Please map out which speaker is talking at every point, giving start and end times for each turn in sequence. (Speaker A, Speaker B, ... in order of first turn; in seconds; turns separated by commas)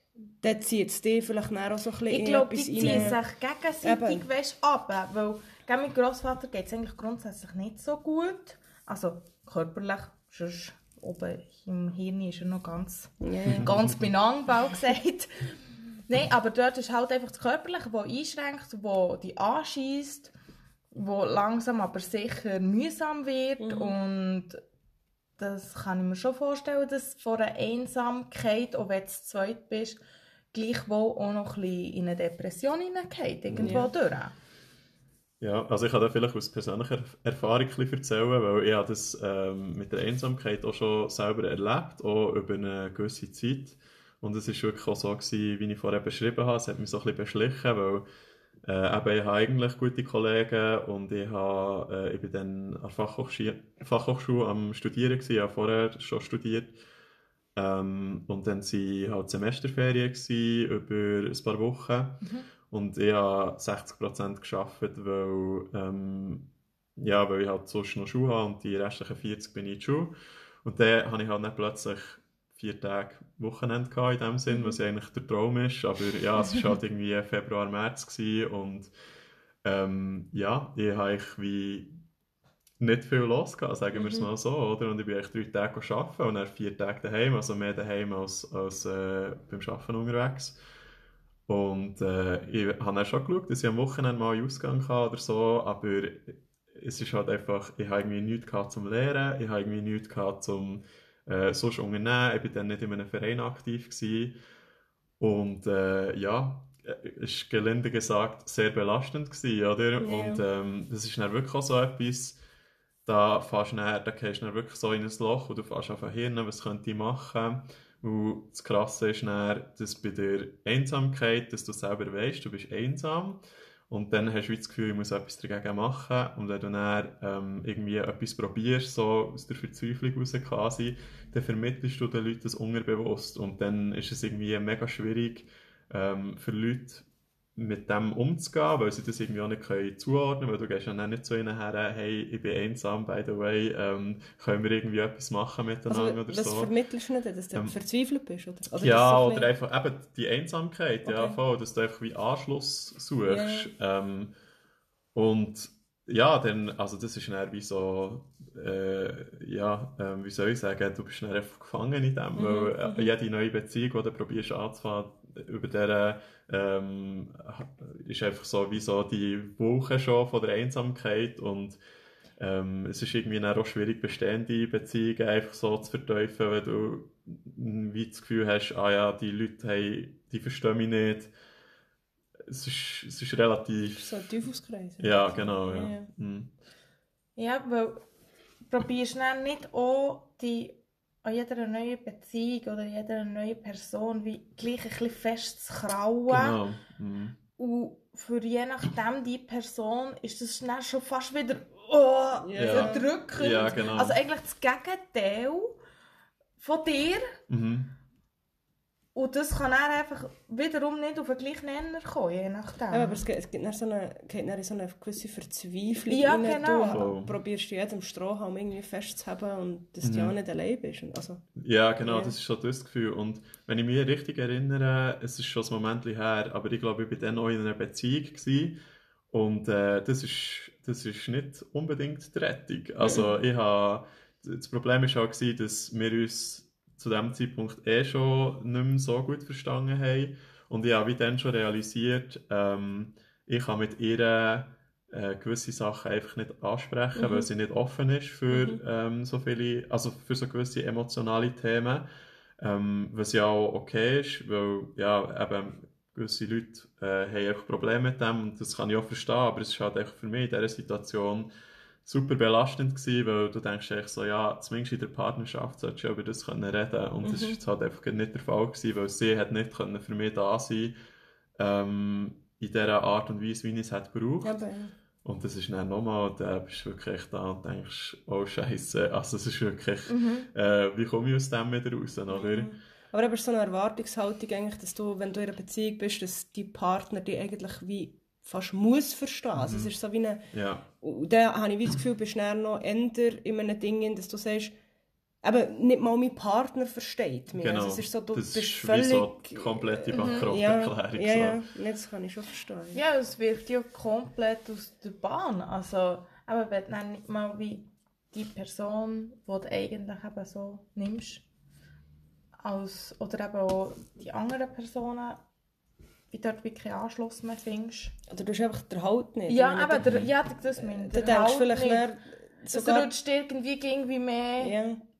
Speaker A: 0.4-3.2, Speaker B: 2.1-20.3, Speaker A: 3.8-4.2, Speaker A: 13.2-13.7, Speaker C: 13.5-13.8, Speaker B: 20.9-24.6, Speaker A: 23.6-23.9, Speaker B: 25.4-30.0, Speaker B: 30.5-34.3, Speaker C: 33.5-33.8, Speaker A: 33.6-33.9, Speaker C: 35.4-48.0, Speaker C: 48.7-56.8, Speaker C: 57.6-70.1, Speaker C: 70.6-78.9, Speaker C: 79.6-81.9, Speaker C: 82.8-90.6, Speaker A: 83.9-84.3, Speaker C: 91.5-104.4, Speaker C: 105.2-112.4, Speaker A: 110.0-110.4, Speaker C: 113.0-137.1, Speaker C: 137.6-146.7, Speaker A: 145.9-149.5, Speaker C: 148.8-154.3, Speaker A: 151.1-151.4, Speaker A: 153.3-153.7, Speaker C: 155.2-171.8, Speaker A: 162.3-163.1, Speaker C: 172.4-181.3, Speaker C: 182.5-184.1, Speaker A: 184.0-186.1, Speaker C: 185.0-186.5, Speaker B: 187.4-188.0, Speaker B: 188.7-196.6, Speaker C: 196.3-197.4, Speaker B: 197.6-205.8, Speaker A: 202.4-203.1, Speaker C: 202.6-204.2, Speaker B: 206.6-207.3, Speaker C: 207.5-207.9, Speaker B: 209.2-213.2, Speaker A: 212.9-221.4, Speaker B: 216.1-217.0, Speaker C: 216.9-217.4, Speaker C: 220.0-220.4, Speaker C: 221.6-228.8, Speaker A: 222.1-222.3, Speaker C: 229.3-252.1, Speaker A: 233.0-233.4, Speaker A: 247.2-247.5, Speaker A: 248.5-248.8, Speaker C: 252.6-261.5, Speaker C: 262.0-270.9, Speaker A: 267.2-267.6, Speaker C: 271.6-274.6, Speaker A: 274.4-274.9, Speaker C: 275.2-282.7, Speaker B: 280.1-280.5, Speaker A: 282.3-290.4, Speaker C: 289.6-289.9, Speaker C: 290.5-290.9, Speaker A: 291.0-294.7, Speaker A: 295.4-303.0, Speaker C: 297.6-301.6, Speaker B: 300.1-300.5, Speaker B: 302.9-311.4, Speaker B: 312.6-315.4, Speaker B: 316.3-318.2, Speaker A: 318.3-320.2, Speaker B: 319.5-322.1, Speaker C: 320.0-320.3, Speaker A: 320.8-323.1, Speaker B: 322.7-324.8, Speaker A: 324.6-325.0